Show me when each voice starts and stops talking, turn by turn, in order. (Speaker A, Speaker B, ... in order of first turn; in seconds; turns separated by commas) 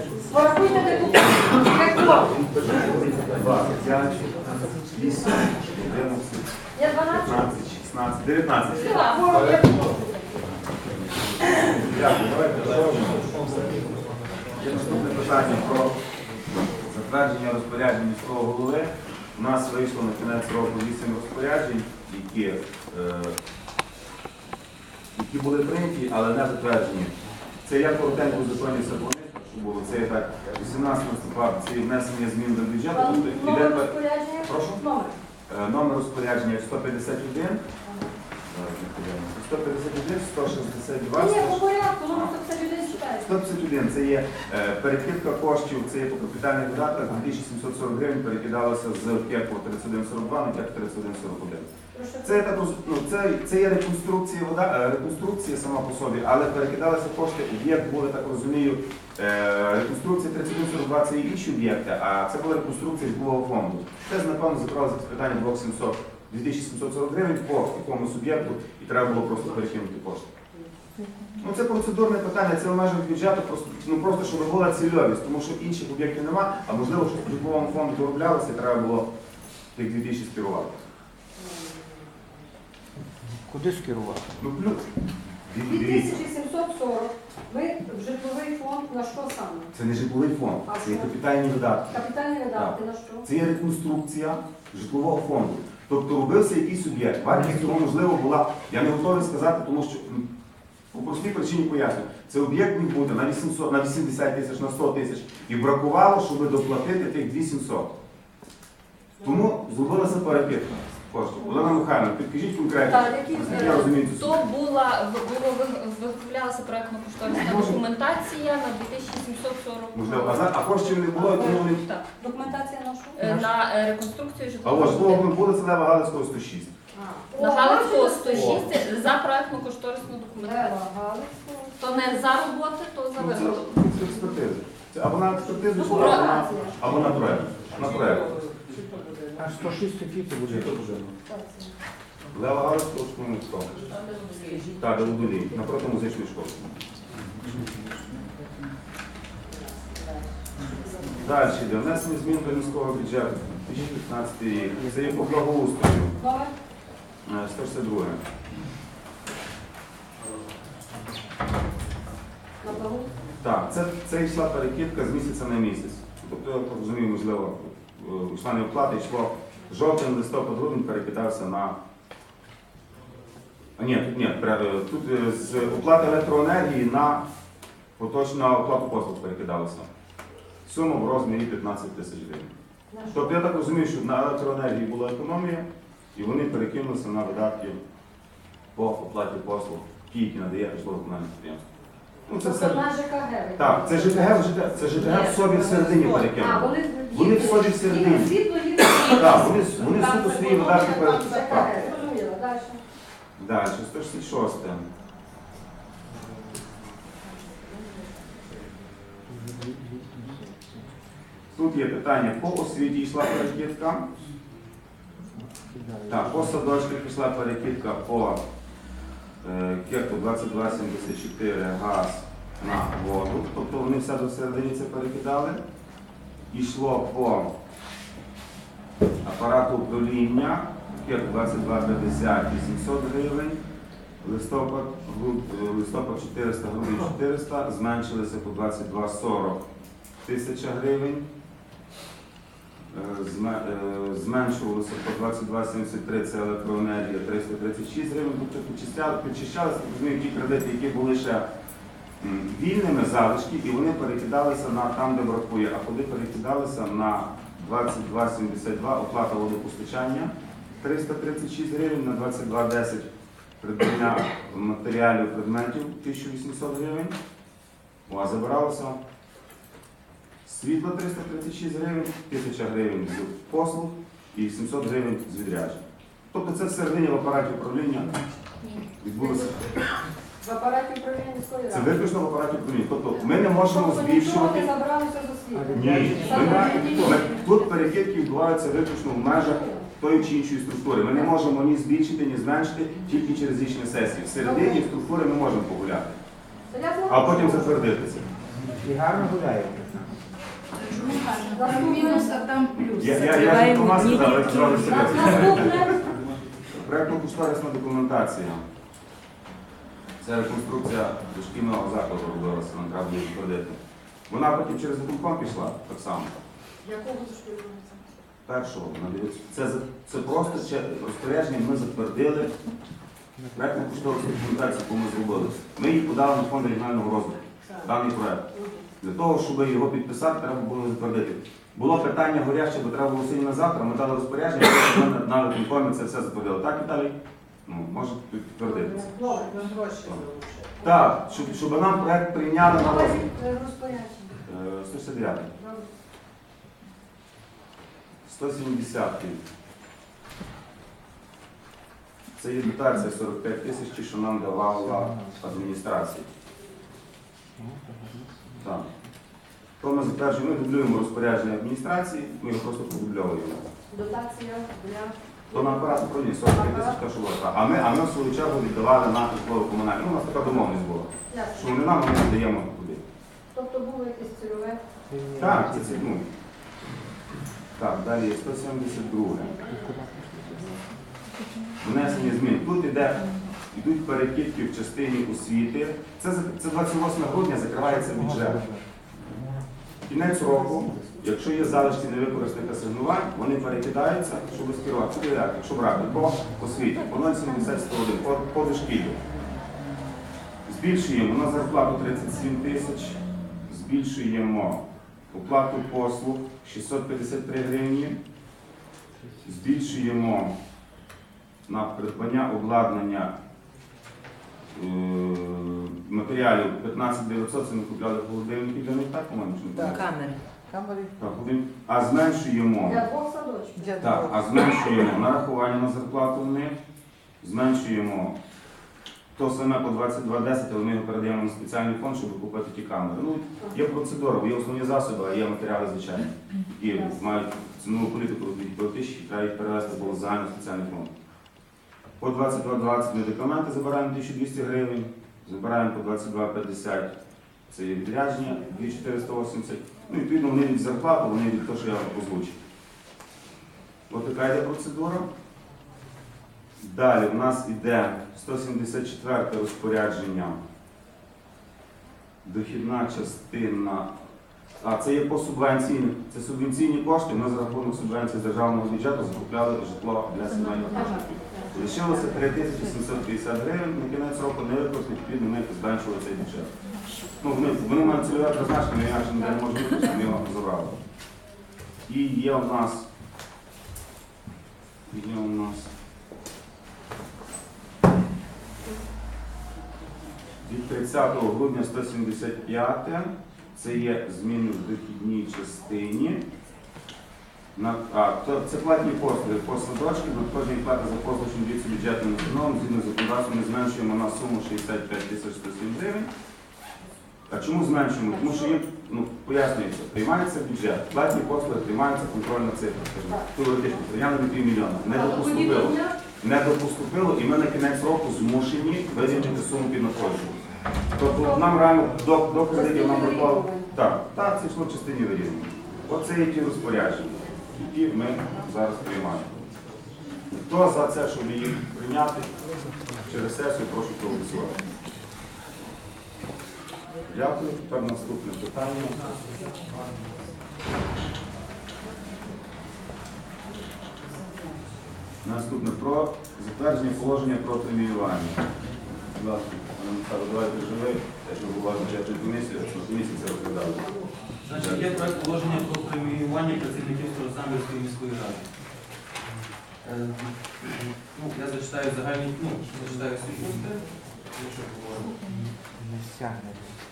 Speaker A: 0.3-2.3, Speaker B: 2.3-4.4, Speaker B: 4.9-6.5, Speaker A: 6.8-7.5, Speaker B: 7.0-9.0, Speaker C: 8.8-9.5, Speaker A: 8.8-10.2, Speaker B: 11.4-13.3, Speaker B: 14.6-15.9, Speaker B: 16.8-23.4, Speaker B: 25.1-34.8, Speaker A: 32.9-35.1, Speaker B: 35.5-37.6, Speaker B: 38.5-42.4, Speaker A: 41.1-43.3, Speaker B: 43.2-51.7, Speaker A: 51.9-52.5, Speaker B: 52.2-70.3, Speaker B: 71.4-79.1, Speaker B: 79.8-80.9, Speaker D: 83.5-84.3, Speaker B: 84.4-84.9, Speaker B: 85.4-86.2, Speaker A: 85.7-89.7, Speaker B: 89.7-92.0, Speaker A: 90.7-91.1, Speaker A: 91.9-93.3, Speaker B: 92.5-100.3, Speaker B: 100.9-107.9, Speaker B: 109.2-114.5, Speaker A: 112.9-113.9, Speaker C: 114.2-122.0, Speaker B: 117.3-117.8, Speaker B: 119.9-121.8, Speaker A: 122.2-123.4, Speaker C: 123.2-125.3, Speaker B: 124.6-126.7, Speaker A: 127.0-128.7, Speaker C: 127.4-130.8, Speaker B: 128.3-128.7, Speaker A: 130.4-132.2, Speaker C: 131.8-133.8, Speaker B: 133.2-138.3, Speaker A: 135.7-136.8, Speaker C: 135.8-136.5, Speaker D: 139.4-141.1, Speaker A: 141.3-141.7, Speaker B: 142.3-143.7, Speaker C: 143.9-144.7, Speaker B: 144.8-146.9, Speaker B: 151.2-156.1, Speaker A: 156.2-156.5, Speaker B: 157.2-158.2, Speaker A: 162.6-163.1, Speaker B: 163.4-171.8, Speaker B: 173.8-177.2, Speaker B: 178.0-179.9, Speaker B: 180.7-182.5, Speaker A: 182.9-183.4, Speaker B: 183.1-187.8, Speaker B: 188.8-191.6, Speaker B: 192.3-192.9, Speaker A: 192.4-194.5, Speaker B: 193.6-198.3, Speaker E: 195.7-196.1, Speaker A: 196.3-202.8, Speaker B: 199.0-202.0, Speaker B: 203.4-204.9, Speaker B: 211.5-214.1, Speaker B: 216.1-218.4, Speaker B: 219.4-225.6, Speaker B: 226.5-227.5, Speaker B: 229.2-233.6, Speaker B: 234.2-239.6, Speaker B: 240.2-241.3, Speaker B: 242.9-251.5, Speaker B: 252.2-263.1, Speaker B: 263.6-267.2, Speaker B: 268.1-269.0, Speaker B: 270.4-278.2, Speaker B: 279.0-279.7, Speaker A: 279.2-279.5, Speaker A: 280.4-282.0, Speaker B: 281.7-284.7, Speaker A: 283.3-287.5, Speaker D: 285.6-287.2, Speaker B: 285.7-296.2, Speaker A: 289.3-289.9, Speaker A: 294.4-294.8, Speaker A: 296.7-297.8, Speaker B: 297.1-298.3, Speaker D: 298.8-300.1, Speaker E: 300.8-303.5, Speaker A: 301.5-302.4, Speaker B: 302.7-306.1, Speaker A: 304.5-306.1, Speaker B: 306.7-308.6, Speaker B: 310.2-316.4, Speaker E: 316.9-317.9, Speaker B: 318.5-322.5, Speaker B: 323.6-328.5, Speaker B: 329.0-339.1, Speaker A: 338.6-339.6, Speaker E: 339.1-340.9, Speaker B: 340.8-343.3, Speaker A: 342.8-344.3, Speaker B: 344.5-345.5, Speaker A: 345.6-345.9, Speaker B: 348.2-349.4, Speaker B: 352.4-356.3, Speaker D: 357.6-358.3, Speaker B: 358.6-358.9, Speaker B: 359.8-363.7, Speaker A: 363.9-367.0, Speaker B: 365.5-373.0, Speaker A: 371.3-371.7, Speaker A: 373.5-374.8, Speaker D: 375.1-375.9, Speaker B: 375.4-376.2, Speaker B: 377.8-379.6, Speaker D: 379.7-380.8, Speaker B: 381.8-388.7, Speaker D: 388.1-388.8, Speaker B: 390.0-399.2, Speaker B: 400.7-408.2, Speaker B: 409.4-410.6, Speaker B: 411.7-413.3, Speaker B: 414.7-420.2, Speaker D: 420.7-421.1, Speaker B: 421.2-423.0, Speaker A: 422.8-424.2, Speaker B: 424.0-426.8, Speaker B: 427.4-428.4, Speaker B: 429.4-441.1, Speaker B: 442.2-447.1, Speaker B: 447.7-452.6, Speaker B: 454.1-455.3, Speaker B: 456.8-460.6, Speaker B: 462.4-464.1, Speaker B: 464.8-476.7, Speaker A: 470.9-471.8, Speaker B: 477.4-481.0, Speaker B: 482.1-483.1, Speaker B: 485.1-485.9, Speaker B: 490.6-496.4, Speaker B: 497.8-506.3, Speaker B: 507.5-520.6, Speaker A: 508.3-508.8, Speaker A: 515.0-516.2, Speaker B: 521.2-529.6, Speaker A: 521.2-521.8, Speaker A: 522.7-523.9, Speaker B: 530.5-532.5, Speaker B: 533.3-534.8, Speaker B: 537.3-539.2, Speaker B: 545.4-548.6, Speaker B: 549.3-554.1, Speaker F: 554.6-558.7, Speaker B: 554.7-555.2, Speaker F: 560.0-564.0, Speaker F: 564.5-565.4, Speaker D: 565.5-566.9